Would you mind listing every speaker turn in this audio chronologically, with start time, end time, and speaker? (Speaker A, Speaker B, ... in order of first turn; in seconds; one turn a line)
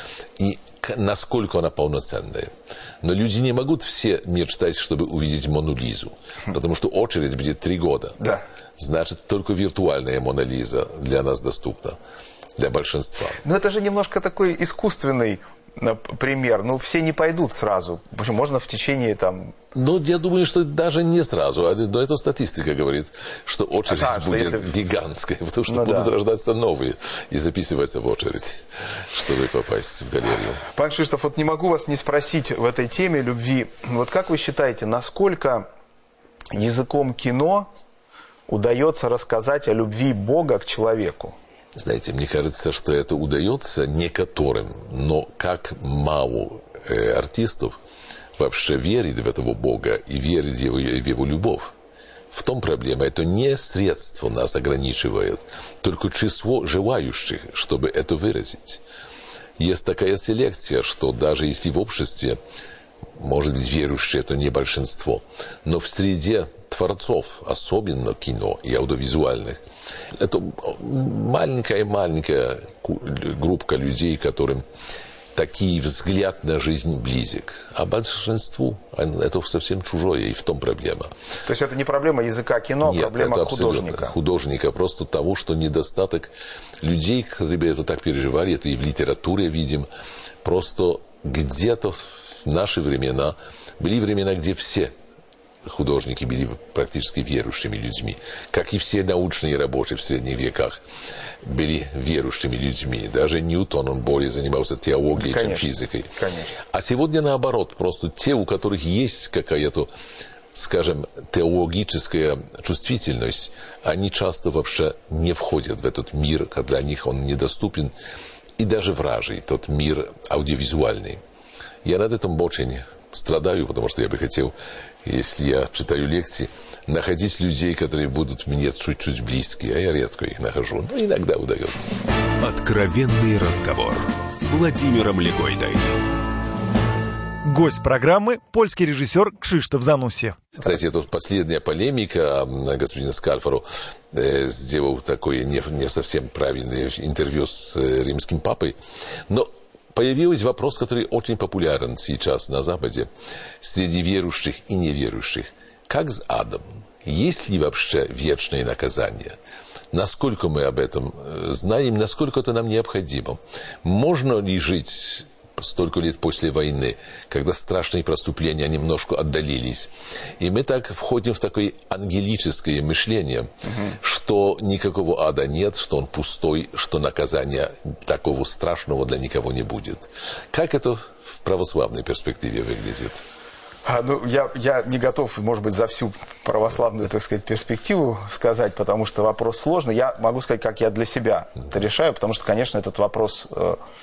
Speaker A: 0.4-8.2
Speaker A: 8.8-12.0
Speaker A: 12.6-13.4
Speaker B: 13.4-19.5
Speaker A: 19.7-30.6
Speaker B: 23.9-24.7
Speaker B: 25.6-26.1
Speaker B: 30.7-35.6
Speaker B: 36.5-37.7
Speaker B: 38.5-41.4
Speaker A: 41.7-47.8
Speaker A: 48.4-51.7
Speaker A: 52.3-58.8
Speaker A: 59.6-62.4
Speaker A: 63.2-69.6
Speaker A: 70.1-74.6
Speaker A: 75.3-81.1
Speaker B: 81.4-84.1
Speaker A: 82.8-89.9
Speaker A: 90.4-94.9
Speaker A: 95.6-100.8
Speaker A: 101.4-109.9
Speaker B: 105.1-106.6
Speaker A: 110.5-117.9
Speaker A: 118.6-121.2
Speaker A: 121.8-131.9
Speaker C: 132.4-135.9
Speaker D: 137.4-140.4
Speaker A: 140.6-148.8
Speaker A: 149.3-153.1
Speaker A: 153.6-159.4
Speaker A: 159.9-183.2
Speaker B: 173.6-174.0
Speaker B: 183.8-193.8